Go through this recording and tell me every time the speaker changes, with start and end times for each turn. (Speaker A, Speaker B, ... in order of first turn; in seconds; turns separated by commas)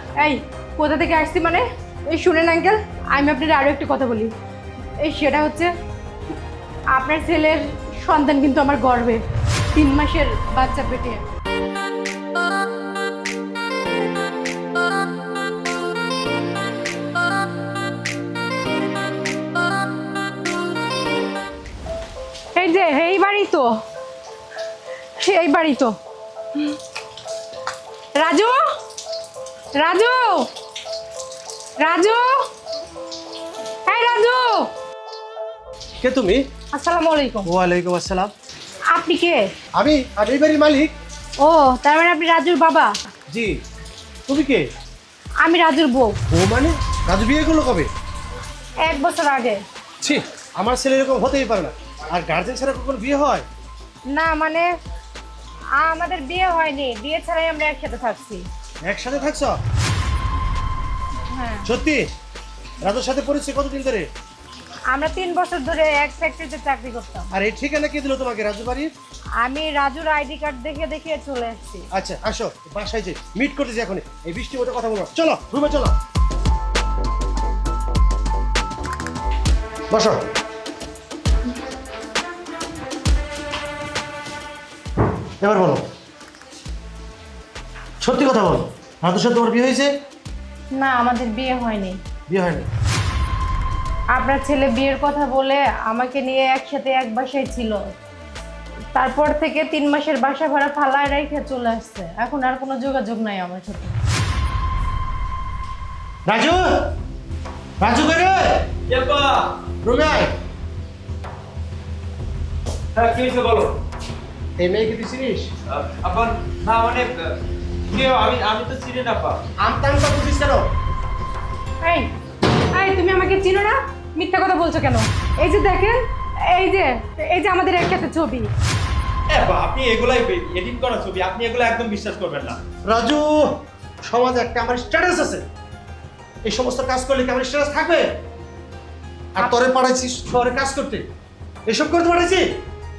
Speaker A: 0.2-4.3, Speaker A: 5.0-5.7, Speaker A: 6.9-9.2, Speaker A: 9.7-11.2, Speaker A: 22.5-23.7, Speaker A: 25.2-25.9, Speaker A: 28.1-28.6, Speaker A: 29.8-30.4, Speaker A: 31.8-32.2, Speaker A: 33.9-34.7, Speaker B: 36.0-36.4, Speaker A: 36.7-37.5, Speaker B: 37.5-38.3, Speaker A: 38.9-39.5, Speaker B: 39.8-40.9, Speaker A: 41.4-42.9, Speaker B: 44.3-44.6, Speaker A: 45.4-46.2, Speaker B: 46.3-47.9, Speaker A: 48.8-49.6, Speaker B: 50.0-53.4, Speaker A: 54.1-54.7, Speaker A: 55.8-58.4, Speaker B: 58.8-59.5, Speaker A: 61.3-61.7, Speaker B: 61.6-62.0, Speaker B: 62.8-64.1, Speaker A: 64.9-67.3, Speaker B: 67.3-68.9, Speaker A: 69.4-71.8, Speaker B: 71.9-75.9, Speaker B: 79.9-80.2, Speaker B: 85.4-85.8, Speaker B: 88.0-89.9, Speaker A: 90.8-92.0, Speaker B: 92.3-92.7, Speaker A: 94.1-97.8, Speaker A: 98.9-103.9, Speaker B: 106.2-106.6, Speaker B: 107.8-108.6, Speaker C: 108.9-109.5, Speaker B: 109.8-110.3, Speaker C: 112.9-113.7, Speaker B: 114.6-115.5, Speaker C: 115.7-117.3, Speaker C: 117.9-119.4, Speaker B: 119.6-120.7, Speaker A: 121.8-122.1, Speaker A: 122.7-128.5, Speaker C: 129.3-132.6, Speaker B: 132.9-133.5, Speaker B: 134.1-135.4, Speaker B: 136.4-138.0, Speaker B: 139.3-141.0, Speaker B: 141.7-142.4